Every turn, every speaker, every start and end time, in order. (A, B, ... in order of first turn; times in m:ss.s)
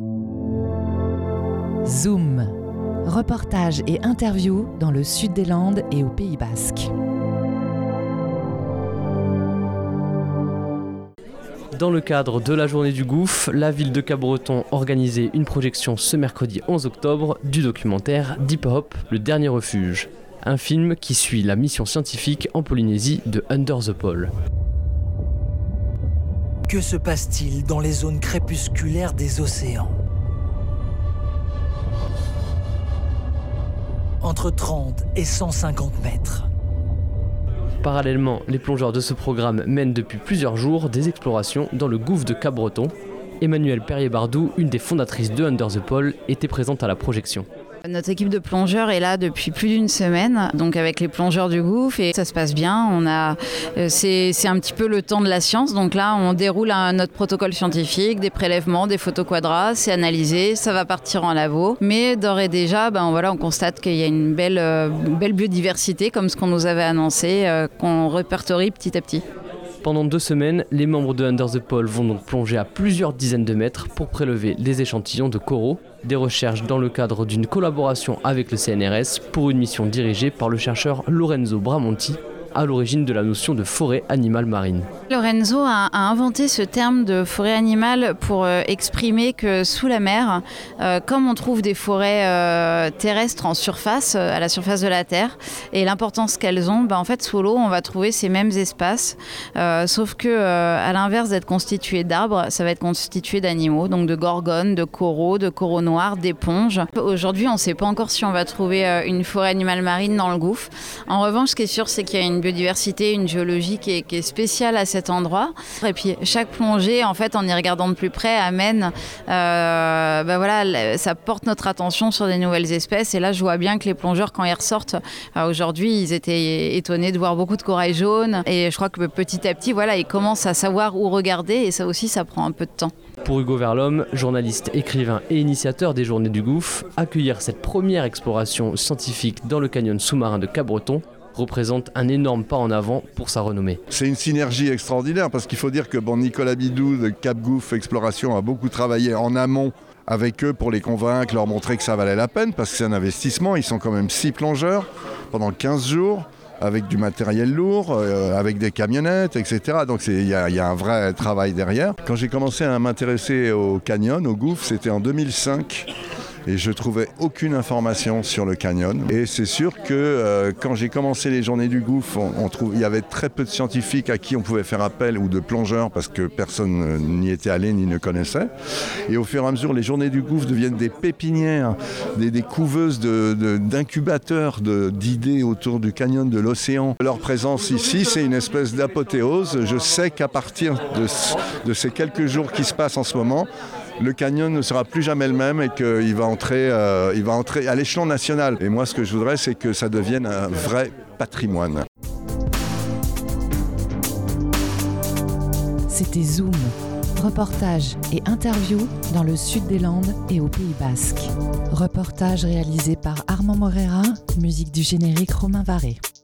0:01.8-0:02.5 A
0:03.0-0:06.9 A
0:11.7-0:24.3 B
0:26.7-0:30.0 C
0:34.2-0:36.5 C
0:37.8-0:47.5 B
0:47.8-1:09.2 D
1:09.8-1:24.9 B
1:25.1-2:12.9 D
2:13.2-2:23.8 B
2:23.9-2:45.9 E
2:46.5-2:58.5 E
2:59.1-3:13.5 E
3:14.0-3:21.8 E
3:25.9-3:36.0 A